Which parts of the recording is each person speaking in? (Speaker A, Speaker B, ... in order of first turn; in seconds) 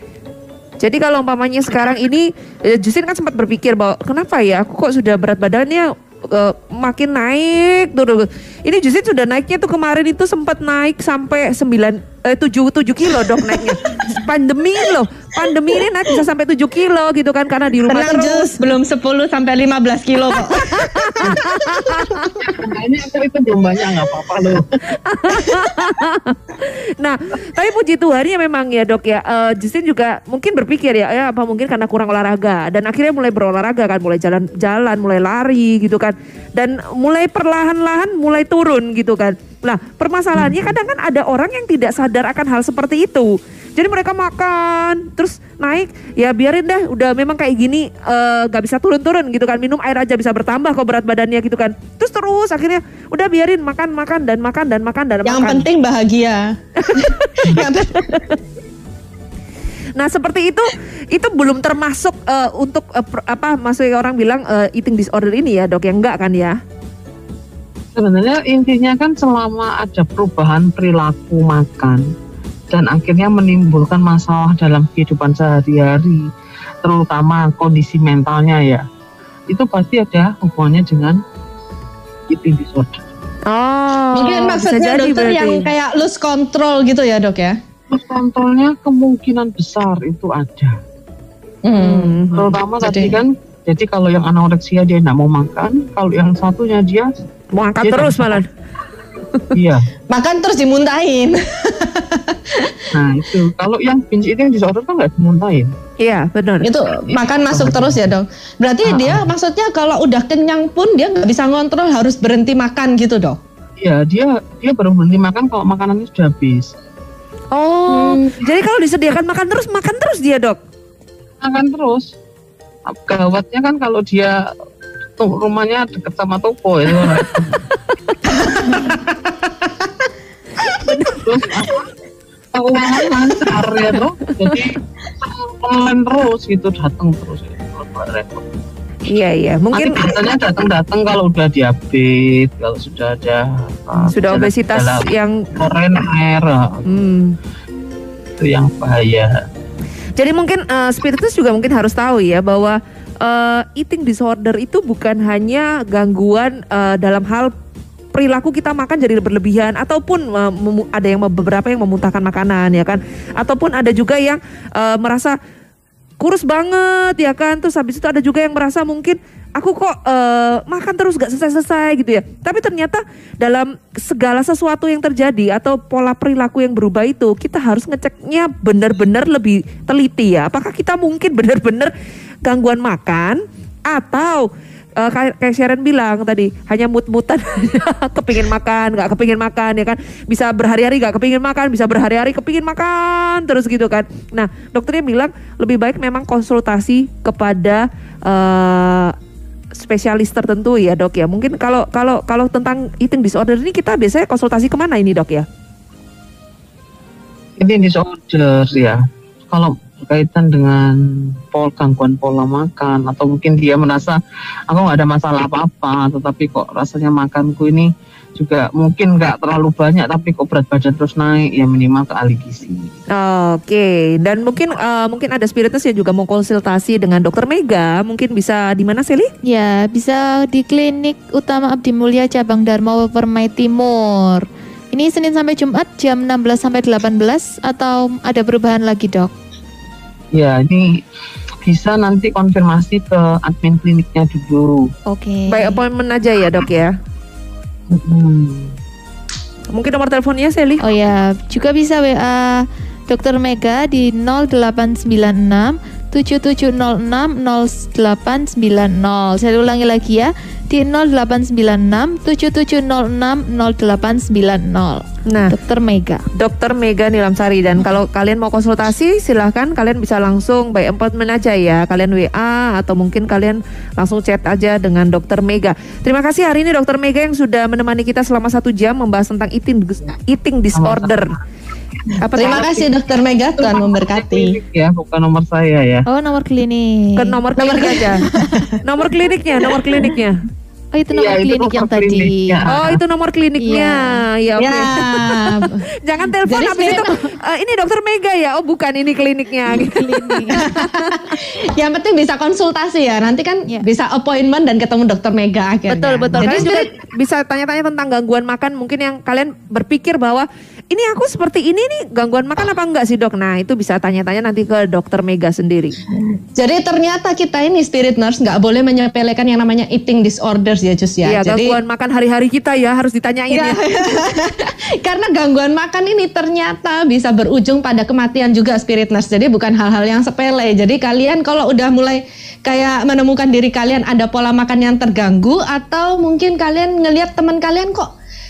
Speaker A: 0.8-18.6, 20.3-22.3, 25.0-55.7, 56.8-58.3, 60.0-66.6, 83.5-85.7, 91.8-92.5, 97.5-98.5, 106.0-106.8, 117.5-120.6, 130.8-131.3, 139.1-140.2, 144.1-145.4, 146.9-147.3, 150.2-157.5, 158.1-165.4, 166.2-181.9, 182.4-199.2, 199.8-205.5, 223.1-229.3, 245.5-246.9, 249.7-250.8, 265.3-265.6, 266.4-281.4, 282.2-282.9, 287.2-288.2, 288.8-290.4, 292.7-301.1, 305.9-316.0, 321.2-323.9
Speaker B: 13.2-13.8, 17.9-22.3, 55.2-58.3, 84.1-87.6, 91.7-92.2, 92.8-93.2, 100.1-102.8, 106.6-113.4, 117.9-118.4, 128.3-129.9, 282.4-284.6, 287.6-288.8, 289.7-290.1, 294.6-295.8, 296.5-297.1, 300.6-306.9, 316.6-321.8, 323.5-338.1
Speaker C: 22.4-24.8, 40.4-40.6, 67.9-72.1, 72.7-76.3, 76.8-78.8, 79.5-81.2, 82.3-83.0, 87.9-90.8, 92.3-97.1, 97.8-98.4, 99.5-99.8, 102.9-105.8, 107.5-108.0, 108.9-109.3, 113.8-116.7, 121.4-122.1, 122.9-124.4, 125.2-127.7, 131.2-131.8, 132.5-138.5, 139.7-146.9, 148.4-149.3, 207.6-222.9, 240.3-241.0, 241.7-244.9, 247.9-248.7, 280.7-281.4, 283.6-286.1, 291.1-293.0
Speaker D: 229.5-239.3, 245.1-245.8, 250.8-266.2, 286.1-288.5, 290.9-292.6, 293.6-294.2, 299.8-300.7